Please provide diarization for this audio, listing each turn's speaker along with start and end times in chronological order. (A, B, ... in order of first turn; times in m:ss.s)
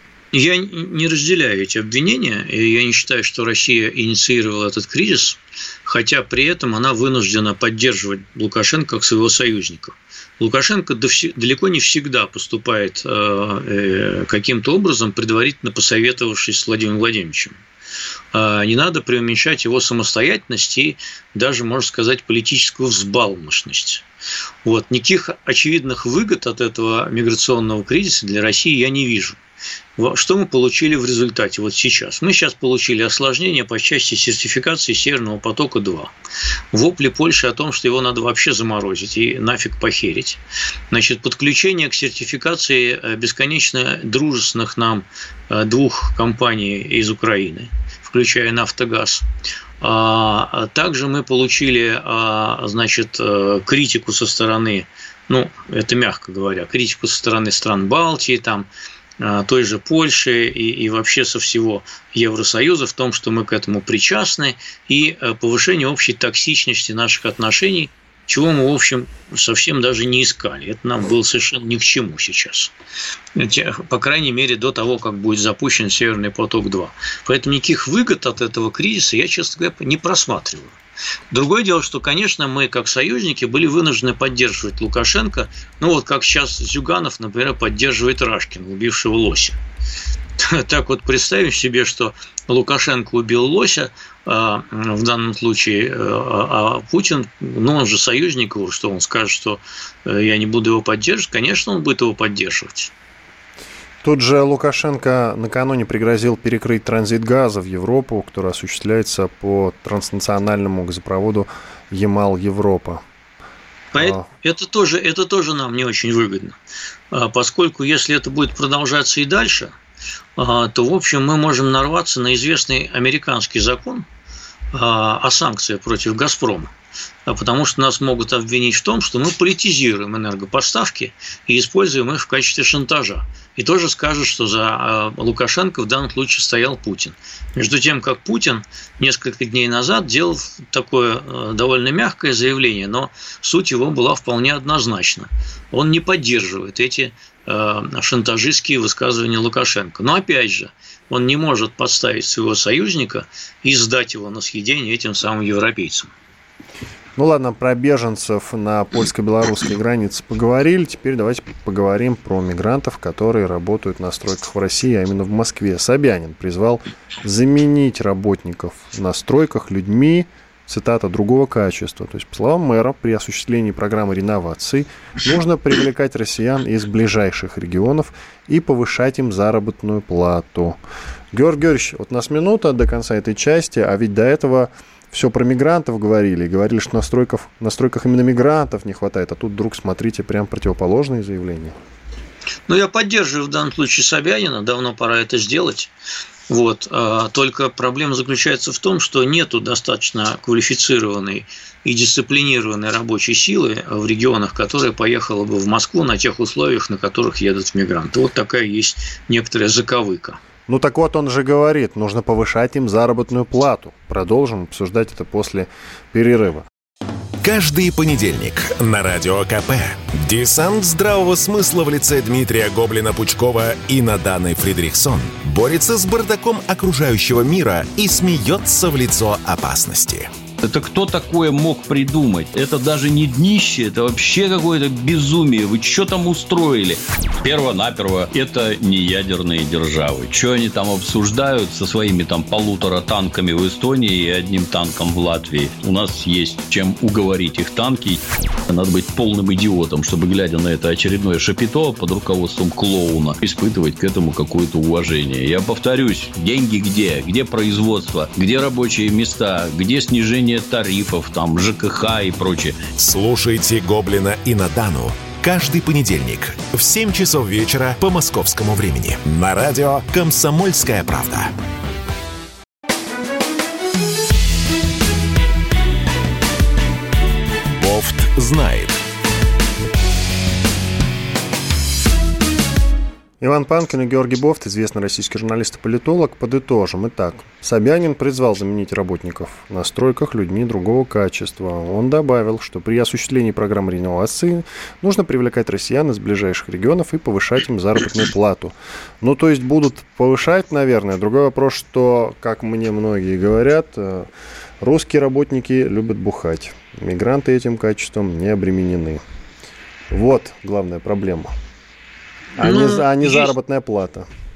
0:00.3-0:17.6 A
0:18.3-0:24.0 A
0:24.6-0:29.4 A
0:30.0-0:36.1 A
0:36.7-0:49.2 A
0:49.8-0:58.7 A
0:59.2-1:12.7 A
1:13.4-1:20.8 A
1:21.3-1:29.6 A
1:30.4-1:42.9 A
1:44.0-1:53.0 B
1:53.9-1:56.6 A
1:54.0-1:54.2 B
1:57.1-1:59.8 A
2:00.4-2:04.1 A
2:04.7-2:06.7 A
2:07.3-2:36.1 A
2:37.2-3:00.8 B
3:01.3-3:11.8 B
3:12.7-3:15.9 A
3:16.5-3:30.4 A
3:30.7-3:36.7 B
3:37.4-3:50.3 C
3:50.6-4:22.8 D
4:23.0-4:31.5 C
4:37.8-4:39.0 C
4:43.4-5:04.3 B
5:04.8-5:09.2 B
5:10.1-5:11.5 B
5:12.6-5:14.3 B
5:12.6-5:13.5 A